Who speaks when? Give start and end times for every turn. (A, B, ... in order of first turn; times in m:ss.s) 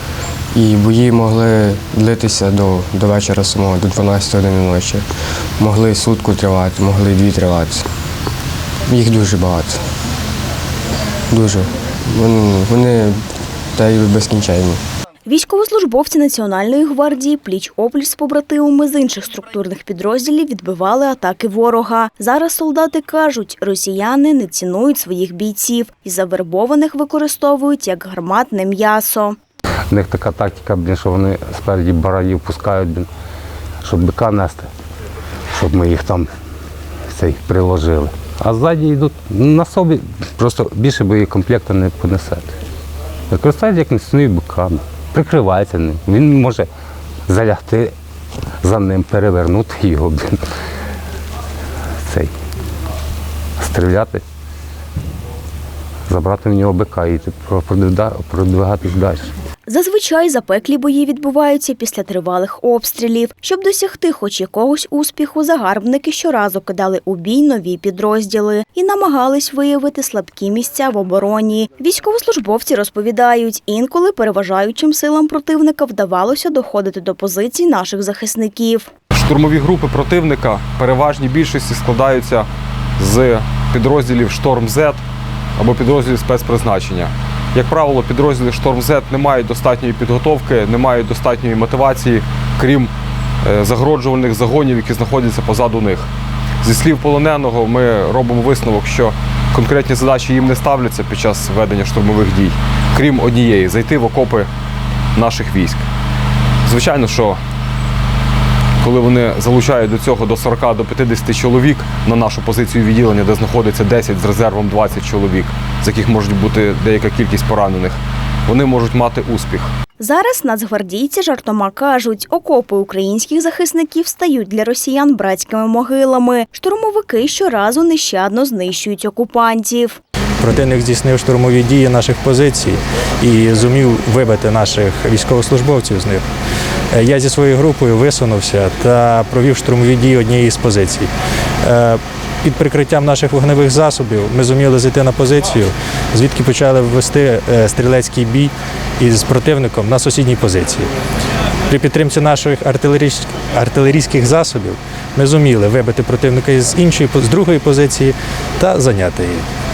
0:00.5-0:05.0 A
0:05.6-0:07.8 A
0:08.9-0:09.8 A
0:11.3-0:13.2 A
0:13.7-0:14.8 A
0:15.2-0:29.4 B
0:29.9-0:33.1 C
0:33.8-0:34.7 C
0:35.5-0:36.3 C
0:37.1-0:42.5 C
0:43.3-0:46.7 C
0:47.3-0:47.9 C
0:48.6-0:50.4 C
0:52.0-0:52.3 C
0:53.6-0:54.2 C
0:56.1-0:59.3 C
0:59.7-1:18.9 B
1:19.1-1:22.5 D
1:23.0-1:25.0 D
1:25.6-1:32.9 D
1:33.4-1:36.1 D
1:36.6-1:44.5 D
1:45.1-1:45.8 D
1:46.6-1:47.4 D
1:48.8-1:59.7 D
2:00.0-2:10.0 B
2:10.4-2:16.2 E
2:16.9-2:21.1 E
2:21.6-2:30.9 E
2:31.7-2:39.4 E